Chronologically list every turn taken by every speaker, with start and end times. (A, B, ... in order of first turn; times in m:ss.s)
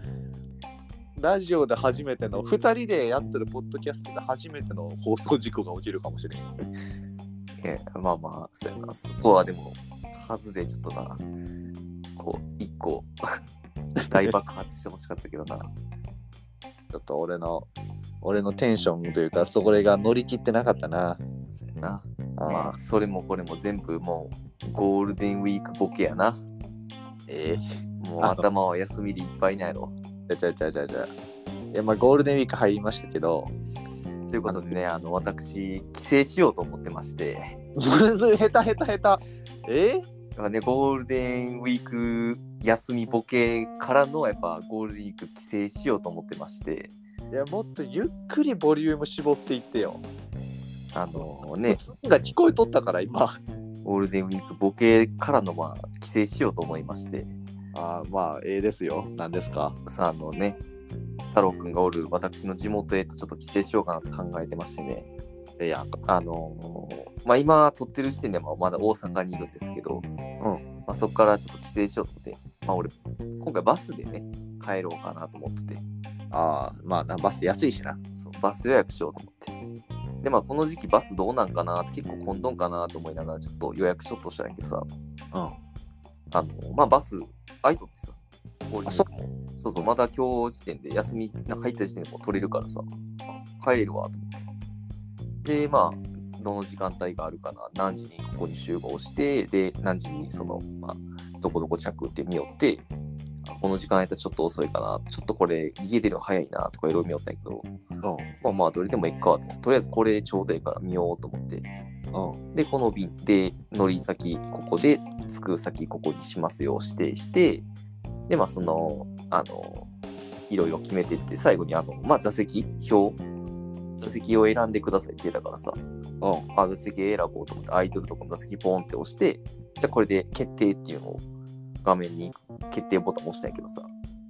0:01.2-0:06.5 A
0:07.6-0:11.2 B
0:12.2-0:13.1 B
0:14.1-0:15.7 B
0:16.9-0:17.7 A
0:18.2-0:21.2 A
0:21.5-0:26.4 B
0:22.4-0:22.7 A
0:27.3-0:27.6 A
0:28.0-0:29.9 B
0:30.3-0:31.1 A
0:31.7-0:33.5 A
0:34.3-0:37.6 B
0:34.5-0:34.7 A
0:37.8-0:40.0 A
0:40.4-0:46.9 B
0:47.3-0:50.0 A
0:50.9-0:51.8 B
0:51.7-0:53.4 A
0:53.8-0:57.3 B
0:57.7-0:59.8 A
0:59.9-1:00.6 B
1:01.3-1:05.1 B
1:05.6-1:06.0 A
1:06.1-1:10.0 B
1:10.9-1:15.8 B
1:16.3-1:18.0 A
1:18.2-1:19.5 B
1:20.2-1:24.9 B
1:26.3-1:28.2 B
1:28.7-1:34.5 B
1:35.4-1:42.9 B
1:43.4-1:47.7 B
1:48.0-1:48.3 A
1:48.4-1:51.7 B
1:52.1-1:52.4 A
1:52.5-1:57.7 B
1:58.3-1:59.9 B
2:00.5-2:03.2 B
2:04.0-2:05.8 B
2:06.2-2:06.5 A
2:06.5-2:11.2 B
2:11.8-2:13.9 B